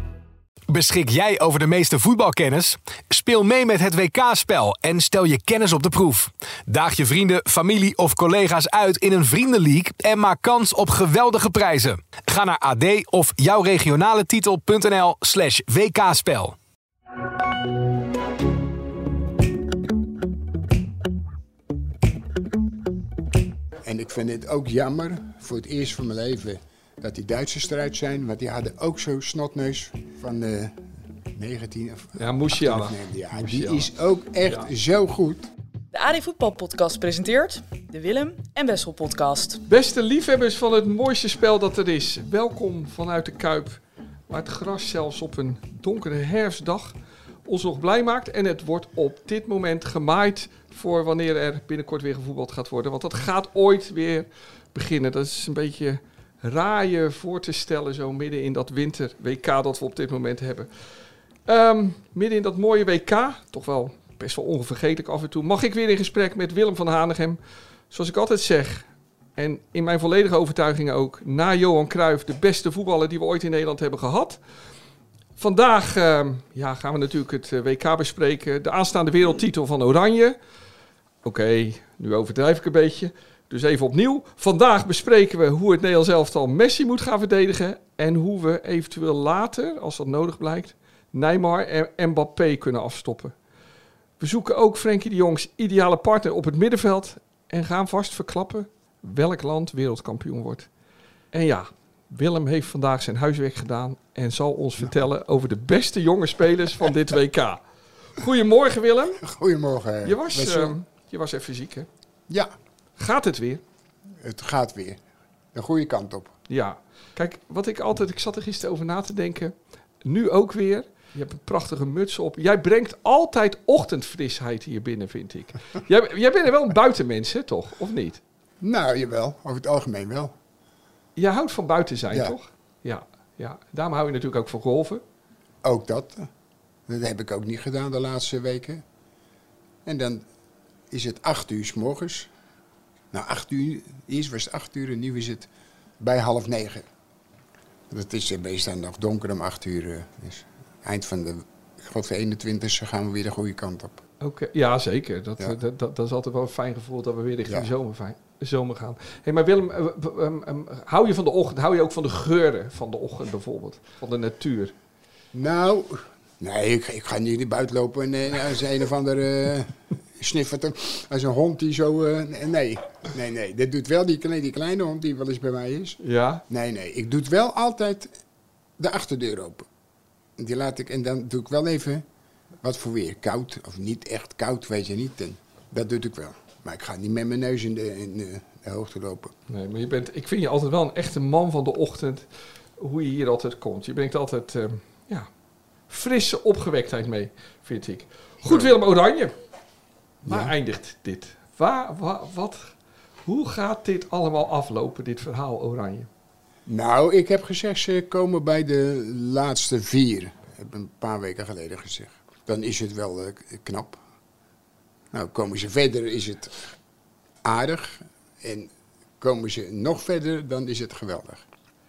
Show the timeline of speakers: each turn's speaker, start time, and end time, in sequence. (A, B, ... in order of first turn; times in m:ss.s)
0:00.7-0:16.6 A
0:23.8-0:35.5 B
0:32.2-0:33.9 C
0:35.9-0:39.6 D
0:39.7-0:46.9 C
0:47.4-1:00.7 C
1:01.4-1:14.4 C
1:15.4-1:20.4 C
1:21.2-1:33.3 C
1:34.2-1:40.7 C
1:41.3-1:47.6 C
1:48.1-1:49.2 C
1:49.2-1:50.7 B
1:50.0-1:51.9 C
1:53.0-1:53.6 C
1:54.2-1:55.0 B
1:55.5-1:56.3 B
1:56.5-1:59.5 C
2:00.0-2:08.2 C
2:08.6-2:10.3 B
2:11.2-2:15.0 C
2:12.1-2:12.3 B
2:15.6-2:16.3 B
2:16.9-2:18.8 B
2:19.8-2:20.2 B
2:20.9-2:22.3 B
2:23.1-2:25.5 B
2:26.0-2:26.8 B
2:27.9-2:34.0 B
2:34.2-2:44.7 C
2:45.3-2:58.1 B
2:56.0-2:56.4 C
2:58.8-2:59.7 B
3:00.4-3:02.0 B
3:02.6-3:09.3 B
3:09.5-3:15.3 C
3:15.9-3:19.3 C
3:20.2-3:20.5 B
3:20.2-3:22.7 C
3:23.2-3:26.1 C
3:26.6-3:34.0 B
3:35.1-3:36.7 B
3:37.4-3:41.4 B